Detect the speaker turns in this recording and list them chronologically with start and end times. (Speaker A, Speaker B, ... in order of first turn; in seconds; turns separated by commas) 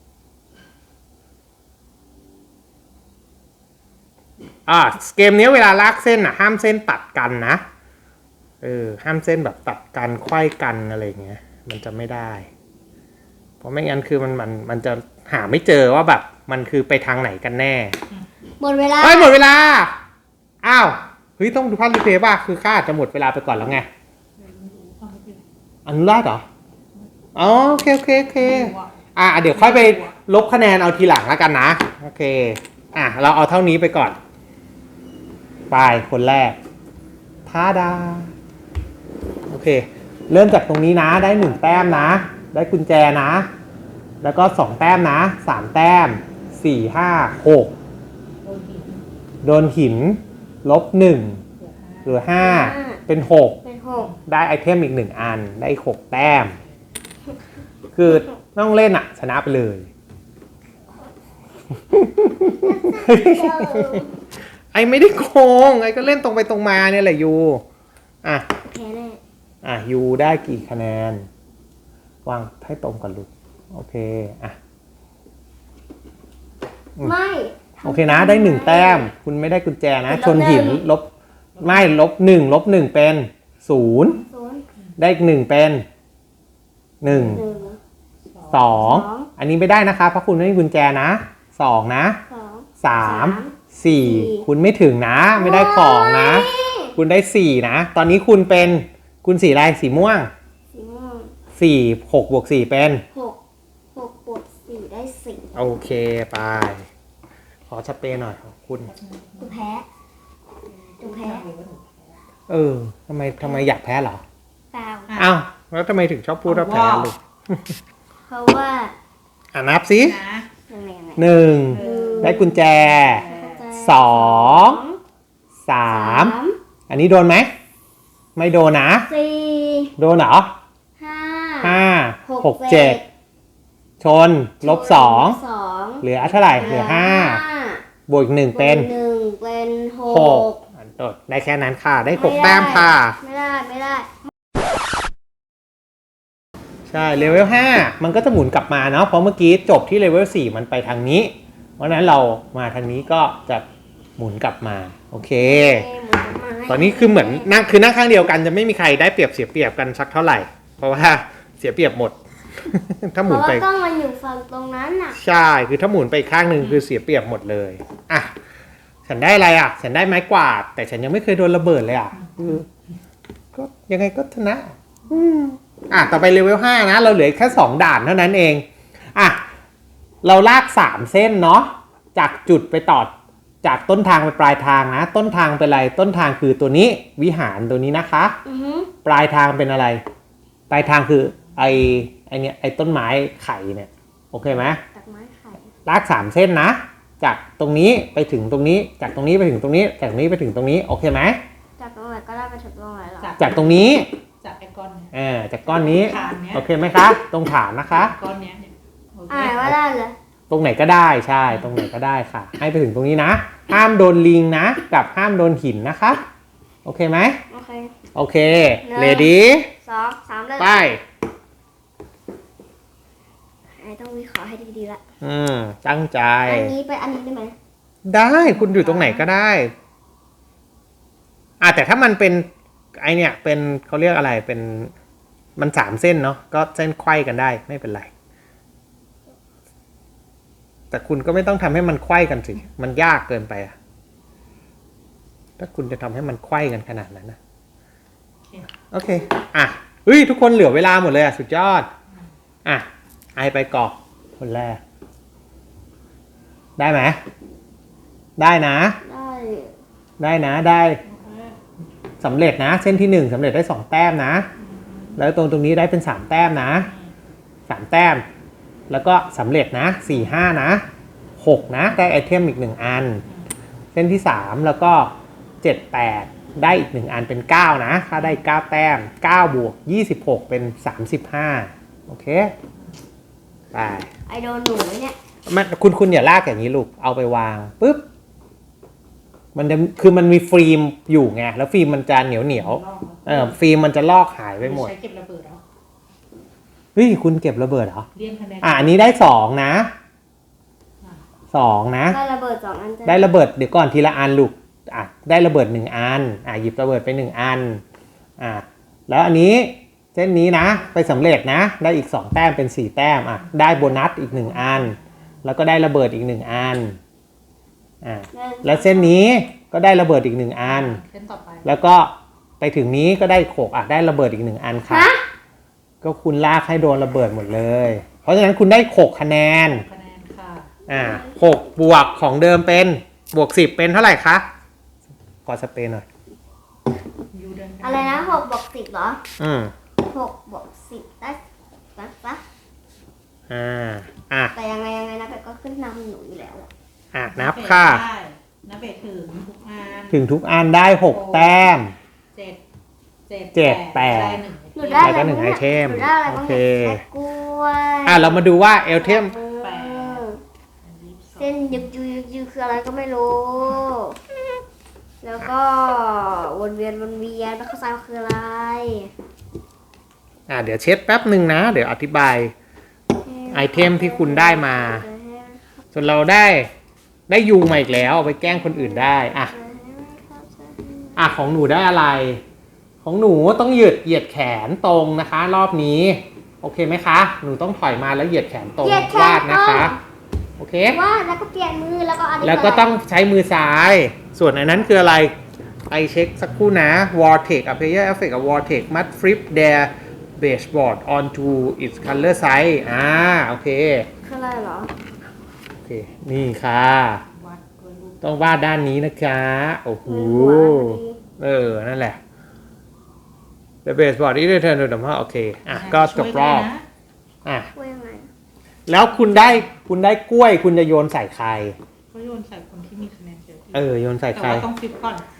Speaker A: 4.7-7.6, Speaker A: 8.6-12.5, Speaker A: 13.6-18.0, Speaker B: 18.6-19.4, Speaker A: 19.0-19.9, Speaker A: 20.6-23.9, Speaker C: 24.4-25.4, Speaker A: 25.9-26.4, Speaker A: 27.4-34.2, Speaker C: 28.4-29.0, Speaker C: 29.5-30.1, Speaker A: 35.7-36.6, Speaker A: 37.5-38.3, Speaker A: 39.5-43.5, Speaker C: 41.3-42.2, Speaker A: 44.2-47.7, Speaker C: 48.4-49.0, Speaker A: 49.4-51.4, Speaker C: 51.6-52.3, Speaker A: 52.0-53.6, Speaker B: 52.4-53.0, Speaker B: 53.6-54.1, Speaker A: 54.2-56.6, Speaker A: 57.9-59.9, Speaker A: 61.8-64.1, Speaker B: 62.6-64.1, Speaker A: 64.7-67.6, Speaker B: 68.5-69.2, Speaker A: 69.6-71.3, Speaker A: 72.2-74.6, Speaker B: 77.0-79.1, Speaker A: 77.8-81.1, Speaker B: 80.1-80.8, Speaker C: 81.5-82.0, Speaker A: 81.6-84.2, Speaker B: 84.2-84.6, Speaker A: 85.0-85.9, Speaker A: 87.0-87.4, Speaker C: 87.1-87.5, Speaker B: 87.1-87.8, Speaker C: 88.3-88.8, Speaker A: 88.5-92.2, Speaker B: 88.8-89.3, Speaker B: 92.3-94.5, Speaker A: 92.8-100.3, Speaker B: 95.4-97.0, Speaker B: 100.7-101.3, Speaker A: 101.5-103.0, Speaker B: 103.1-103.4, Speaker B: 103.9-105.5, Speaker A: 105.5-106.9, Speaker A: 107.7-108.9, Speaker C: 108.9-109.5, Speaker B: 109.4-109.9, Speaker C: 110.7-112.2, Speaker B: 111.0-111.5, Speaker A: 112.5-114.2, Speaker B: 113.4-113.7, Speaker B: 114.7-115.2, Speaker C: 115.1-115.3, Speaker A: 115.2-117.8, Speaker C: 116.5-117.1, Speaker B: 118.3-119.0, Speaker A: 119.5-120.2, Speaker C: 120.0-120.5, Speaker B: 120.7-125.0, Speaker A: 121.2-123.2, Speaker C: 121.7-123.7, Speaker A: 123.7-124.8, Speaker A: 125.6-126.3, Speaker B: 125.9-126.6, Speaker A: 126.9-127.5, Speaker A: 128.4-129.1, Speaker B: 129.1-129.9, Speaker A: 130.0-130.5, Speaker B: 131.0-133.1, Speaker A: 131.6-133.0, Speaker A: 134.0-135.4, Speaker B: 134.6-137.8, Speaker A: 136.0-137.4, Speaker C: 136.3-136.7, Speaker A: 138.1-138.9, Speaker B: 138.5-140.6, Speaker A: 140.1-143.2, Speaker B: 142.1-144.3, Speaker A: 146.9-153.7, Speaker A: 154.2-155.9, Speaker B: 155.4-157.6, Speaker A: 156.7-163.7, Speaker B: 163.2-165.2, Speaker A: 165.1-168.3, Speaker A: 169.1-172.7, Speaker C: 172.2-172.6, Speaker A: 173.5-179.4, Speaker A: 180.2-188.3, Speaker B: 188.4-188.9, Speaker A: 189.0-190.0, Speaker A: 190.7-194.8, Speaker B: 194.8-195.7, Speaker A: 195.8-201.4, Speaker B: 201.8-203.4, Speaker C: 203.2-203.9, Speaker A: 203.4-204.1, Speaker C: 204.4-205.1, Speaker A: 205.1-208.1, Speaker B: 205.8-206.3, Speaker C: 205.8-206.7, Speaker C: 207.9-209.7, Speaker B: 209.3-210.2, Speaker A: 210.5-216.2, Speaker A: 216.8-217.4, Speaker B: 217.5-218.0, Speaker A: 218.2-219.7, Speaker B: 218.8-220.9, Speaker A: 220.6-221.0, Speaker B: 223.8-225.0, Speaker A: 225.2-226.7, Speaker B: 226.5-227.6, Speaker A: 228.1-229.7, Speaker C: 228.4-229.3, Speaker A: 231.6-234.9, Speaker A: 235.6-238.1, Speaker A: 240.9-243.8, Speaker A: 245.6-247.4, Speaker A: 248.9-251.9, Speaker A: 252.7-254.8, Speaker A: 256.8-257.2, Speaker A: 258.4-259.0, Speaker B: 259.0-259.8, Speaker A: 260.2-261.0, Speaker C: 261.0-261.6, Speaker A: 262.2-264.5, Speaker C: 264.6-265.2, Speaker A: 265.2-266.9, Speaker C: 266.8-267.1, Speaker A: 267.7-268.2, Speaker A: 268.9-270.8, Speaker A: 271.4-273.2, Speaker A: 273.9-282.5, Speaker A: 283.7-284.1, Speaker B: 284.3-285.2, Speaker A: 285.5-288.1, Speaker A: 289.5-294.9, Speaker C: 292.5-293.6, Speaker C: 294.6-295.6, Speaker A: 296.9-298.1, Speaker C: 298.2-299.1, Speaker A: 298.6-299.9, Speaker A: 301.5-302.2, Speaker B: 302.1-303.3, Speaker A: 303.0-307.8, Speaker A: 308.4-317.0, Speaker C: 314.2-315.0, Speaker A: 318.0-321.0, Speaker B: 318.3-318.8, Speaker C: 320.6-321.7, Speaker A: 321.6-325.1, Speaker B: 324.9-325.2, Speaker A: 326.0-329.9, Speaker C: 329.7-330.7, Speaker A: 330.9-334.5, Speaker B: 330.9-331.3, Speaker A: 335.5-336.1, Speaker C: 337.3-338.4, Speaker B: 337.8-339.2, Speaker A: 339.4-339.7, Speaker B: 340.0-341.4, Speaker B: 341.9-342.4, Speaker A: 343.5-344.5, Speaker B: 344.5-346.7, Speaker A: 347.1-348.0, Speaker C: 347.3-350.2, Speaker A: 350.1-351.9, Speaker C: 351.1-351.7, Speaker C: 352.3-352.6, Speaker C: 353.3-355.2, Speaker A: 353.5-354.4, Speaker B: 354.8-358.4, Speaker A: 355.0-357.0, Speaker A: 358.1-359.3, Speaker B: 358.9-360.4, Speaker C: 359.6-360.2, Speaker C: 360.8-361.9, Speaker B: 361.4-364.2, Speaker B: 365.2-369.1, Speaker A: 370.5-372.5, Speaker B: 373.2-375.7, Speaker A: 373.5-375.0, Speaker A: 375.9-376.7, Speaker A: 377.3-379.5, Speaker B: 378.1-381.3, Speaker A: 381.2-382.4, Speaker A: 383.0-390.0, Speaker B: 388.8-390.0, Speaker A: 390.6-391.0, Speaker B: 390.9-393.0, Speaker A: 392.4-395.3, Speaker A: 395.9-404.1, Speaker B: 404.2-404.9, Speaker A: 405.8-407.2, Speaker C: 407.3-408.7, Speaker A: 408.2-412.2, Speaker B: 410.1-411.2, Speaker A: 413.8-416.7, Speaker C: 415.7-416.8, Speaker A: 417.4-417.7, Speaker B: 417.8-418.3, Speaker A: 418.9-421.8, Speaker C: 419.1-419.7, Speaker C: 422.1-425.2, Speaker A: 423.7-424.7